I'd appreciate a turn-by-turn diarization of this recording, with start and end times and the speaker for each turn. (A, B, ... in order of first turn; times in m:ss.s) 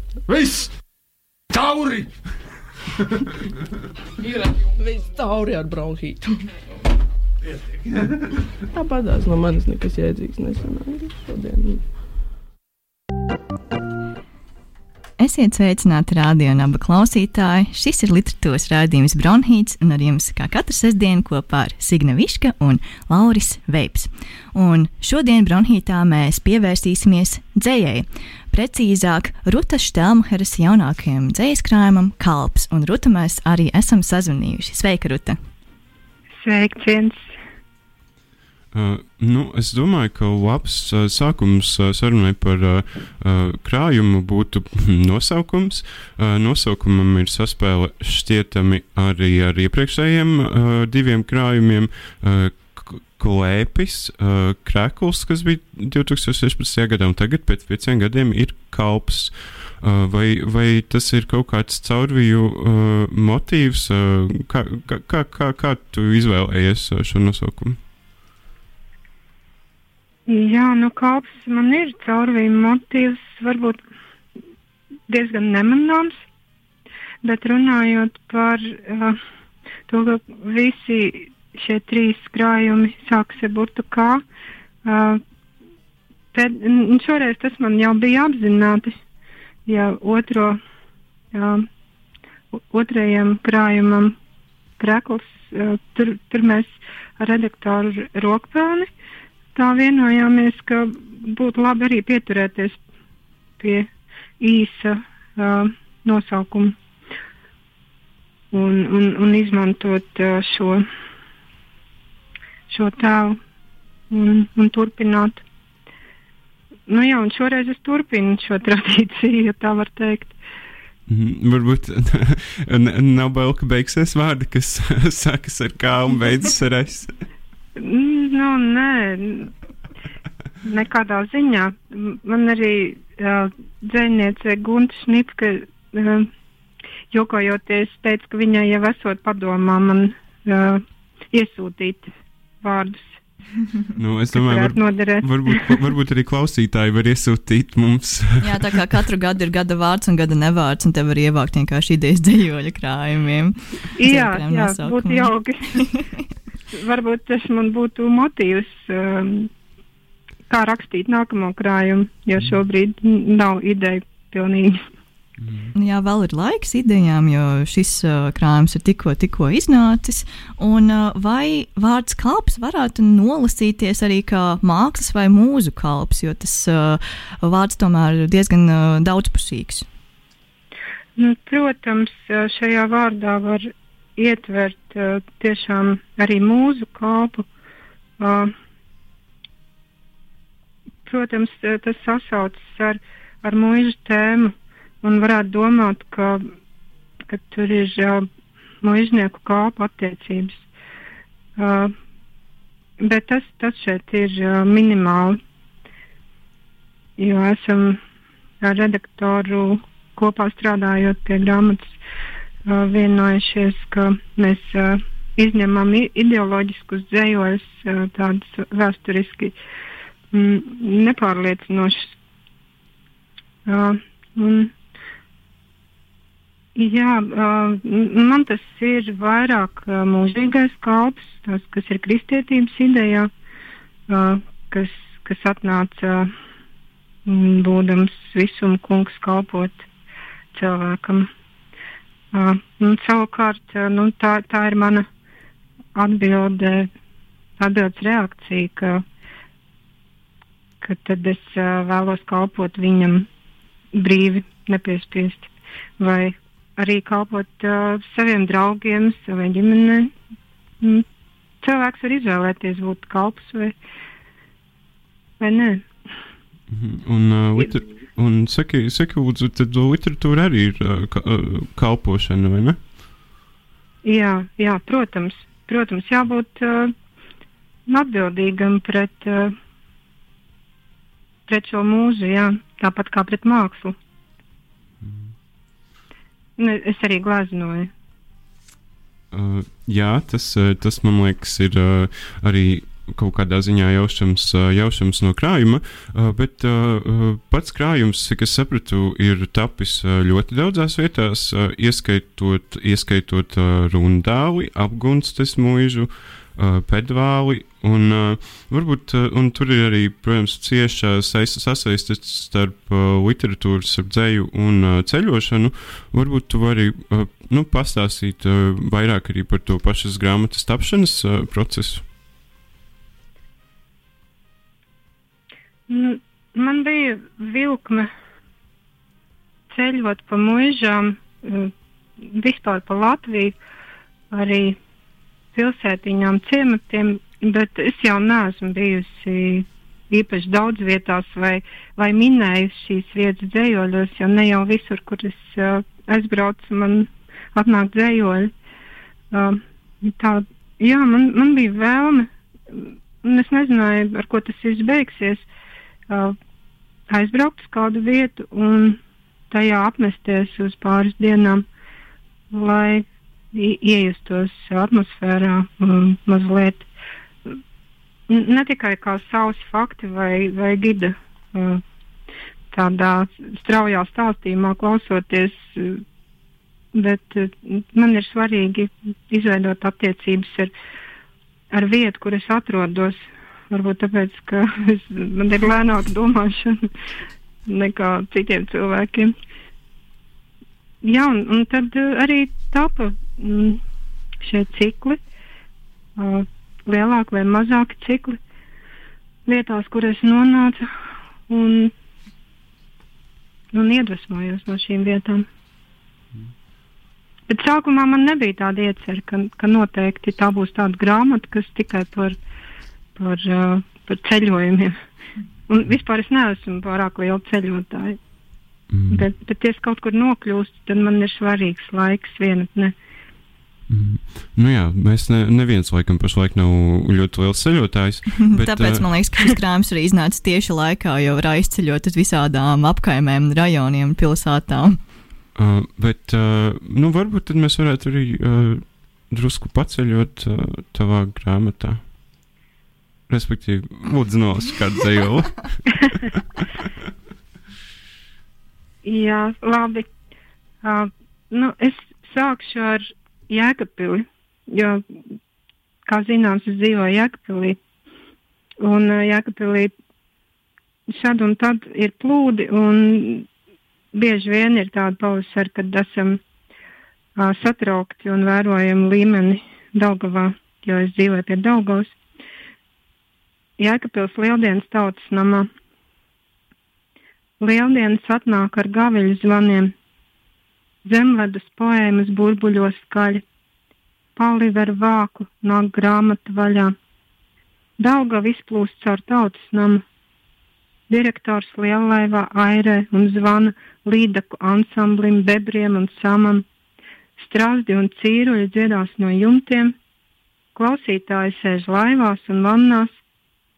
0:00.3-0:00.8 A
0:01.5-0:02.2 A
0:04.6-0:06.5 B
0:07.4-0:08.5 A
0:08.7-0:11.9 B
0:15.2-0:35.4 C
0:36.4-0:37.2 D
0:38.7-1:07.8 E
1:10.3-1:13.8 D
1:15.1-1:16.2 D
1:17.2-1:19.2 D
1:19.9-1:24.2 D
1:24.8-1:25.2 D
1:26.3-1:28.9 D
1:29.6-1:30.6 D
1:31.3-1:31.6 D
1:32.5-1:34.2 D
1:34.8-1:38.9 D
1:39.5-1:42.8 D
1:43.6-1:46.8 D
1:48.5-1:50.8 D
1:52.7-1:53.4 D
1:54.1-1:55.4 D
1:56.9-2:00.3 D
2:01.1-2:07.2 E
2:07.8-2:09.5 D
2:10.6-2:16.3 D
2:17.1-2:22.1 D
2:22.6-2:23.2 D
2:24.0-2:28.6 E
2:24.3-2:25.8 D
2:28.4-2:36.2 C
2:34.0-2:35.8 D
2:36.7-2:39.5 D
2:40.5-2:44.8 D
2:45.4-2:45.7 E
2:45.7-2:59.8 C
3:01.2-3:07.4 D
3:08.2-3:08.5 D
3:11.0-3:16.5 D
3:17.3-3:18.2 D
3:18.8-3:20.7 D
3:21.6-3:21.9 D
3:23.0-3:25.4 D
3:27.2-3:28.0 D
3:28.6-3:32.0 D
3:32.6-3:39.5 D
3:40.3-3:42.1 D
3:43.6-3:44.7 D
3:46.8-3:53.3 D
3:54.1-3:56.3 D
3:57.2-3:59.8 D
4:00.5-4:01.3 D
4:02.3-4:05.0 D
4:05.9-4:06.9 D
4:07.6-4:09.0 D
4:10.8-4:13.3 D
4:13.9-4:20.1 D
4:21.6-4:23.7 D
4:25.4-4:25.9 D
4:26.7-4:32.8 E
4:34.0-4:36.9 D
4:37.9-4:39.5 D
4:41.5-4:43.9 D
4:45.0-4:45.3 E
4:46.6-4:47.9 D
4:49.3-5:22.0 E
5:25.9-5:28.1 D
5:29.7-5:33.6 D
5:34.3-5:34.8 D
5:35.5-5:48.5 D
5:49.3-5:55.5 D
5:56.1-5:56.4 D
5:57.1-5:59.0 D
5:59.5-6:01.6 D
6:02.5-6:06.8 D
6:08.3-6:11.8 D
6:12.7-6:16.0 D
6:16.9-6:20.7 D
6:21.7-6:23.2 D
6:23.7-6:26.9 D
6:27.6-6:29.3 D
6:31.0-6:33.8 D
6:34.4-6:35.2 D
6:36.2-6:38.4 D
6:39.4-6:40.8 D
6:41.5-6:41.9 D
6:43.7-6:45.5 D
6:47.5-6:52.4 D
6:53.2-6:55.0 D
6:55.7-6:58.2 D
6:58.9-6:59.3 E
6:59.1-7:02.9 D
7:03.9-7:09.1 E
7:08.4-7:15.0 C
7:15.6-7:22.0 E
7:23.3-7:26.6 E
7:29.0-7:30.0 D
7:30.8-7:35.0 D
7:36.0-7:37.8 D
7:38.8-7:39.9 D
7:41.1-7:43.5 D
7:44.1-7:46.4 D
7:47.4-7:52.2 D
7:53.8-7:55.7 D
7:57.6-7:59.9 D
8:01.0-8:03.4 D
8:04.4-8:06.9 D
8:08.0-8:10.0 D
8:11.1-8:16.6 D
8:17.4-8:19.9 D
8:20.7-8:23.2 D